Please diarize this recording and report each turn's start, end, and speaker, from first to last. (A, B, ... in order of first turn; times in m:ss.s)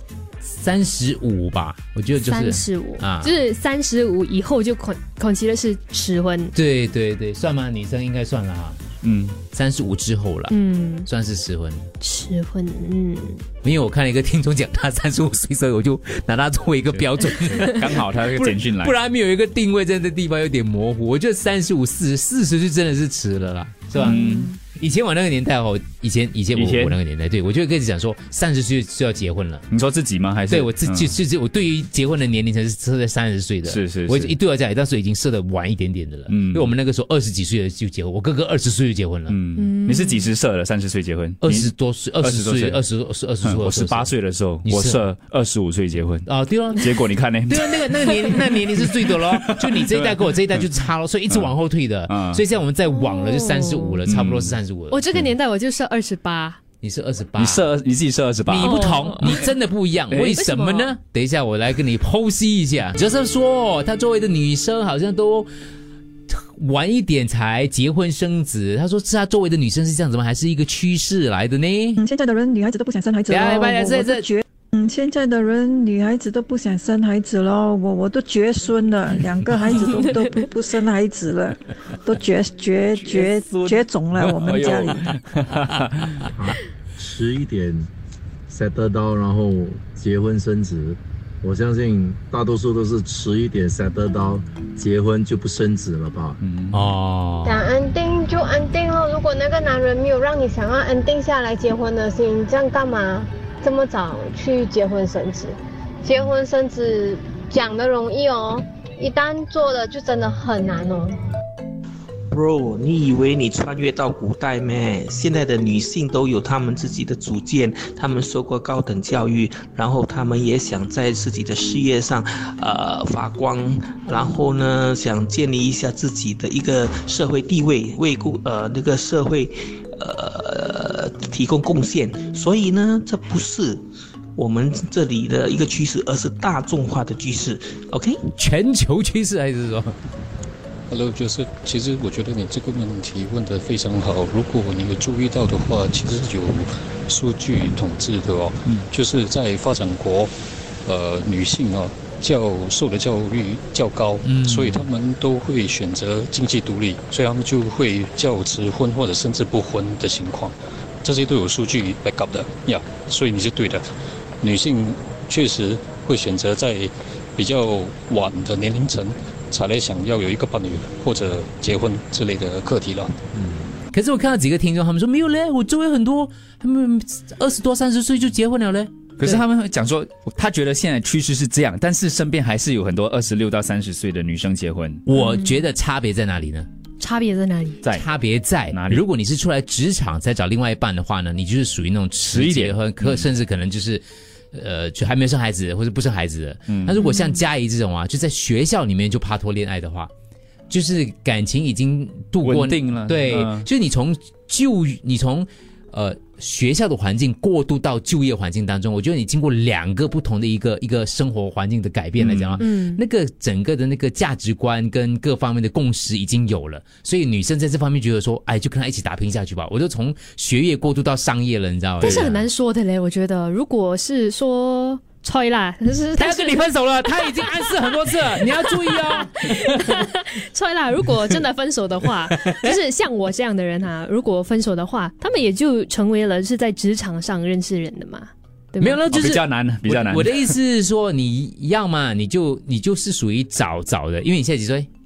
0:00.5-0:03.3 A
0:02.2-0:06.6 B
0:06.6-0:08.8 A
0:09.0-0:09.4 C
0:09.5-0:11.9 A
0:10.5-0:11.1 B
0:12.0-0:13.4 B
0:13.6-0:17.8 A
0:17.5-0:19.0 C
0:18.4-0:29.7 A
0:24.0-0:24.5 C
0:26.6-0:27.0 C
0:29.7-0:31.1 C
0:30.5-0:39.4 A
0:33.6-0:34.4 C
0:36.3-0:36.7 C
0:39.3-0:42.8 C
0:39.6-0:40.3 B
0:41.4-0:44.1 A
0:43.4-0:50.6 C
0:44.7-0:45.0 A
0:46.3-0:46.8 A
0:47.5-0:55.3 A
0:52.1-0:52.4 C
0:52.8-0:54.0 B
0:54.1-0:54.6 C
0:54.9-0:56.6 B
0:56.8-0:57.7 A
0:57.4-0:59.3 C
0:58.5-1:05.5 A
0:58.6-0:59.5 B
1:00.1-1:00.4 C
1:00.3-1:01.0 B
1:06.4-1:12.0 A
1:12.0-1:25.1 D
1:13.3-1:14.3 A
1:23.0-1:23.8 C
1:24.4-1:26.2 C
1:26.4-1:27.9 E
1:28.5-1:36.4 E
1:36.4-1:36.9 C
1:36.7-1:37.6 A
1:37.4-1:51.2 F
1:52.3-2:13.8 G
2:14.4-2:18.3 G
2:18.4-2:20.0 A
2:20.9-2:30.3 H
2:30.8-2:43.9 H
2:44.4-2:53.2 H
2:53.8-2:58.9 A
2:59.2-3:05.0 C
3:05.1-3:06.7 A
3:05.1-3:05.5 B
3:07.0-3:07.8 B
3:07.9-3:20.1 A
3:08.7-3:09.0 C
3:12.3-3:13.3 C
3:16.7-3:17.0 C
3:16.9-3:17.4 B
3:20.7-3:42.4 A
3:22.4-3:23.7 C
3:32.2-3:32.6 C
3:32.6-3:33.0 B
3:42.0-3:59.4 B
3:42.0-3:42.4 C
3:46.2-3:49.7 A
3:52.3-3:52.6 A
3:58.8-4:04.9 A
3:59.1-4:00.6 C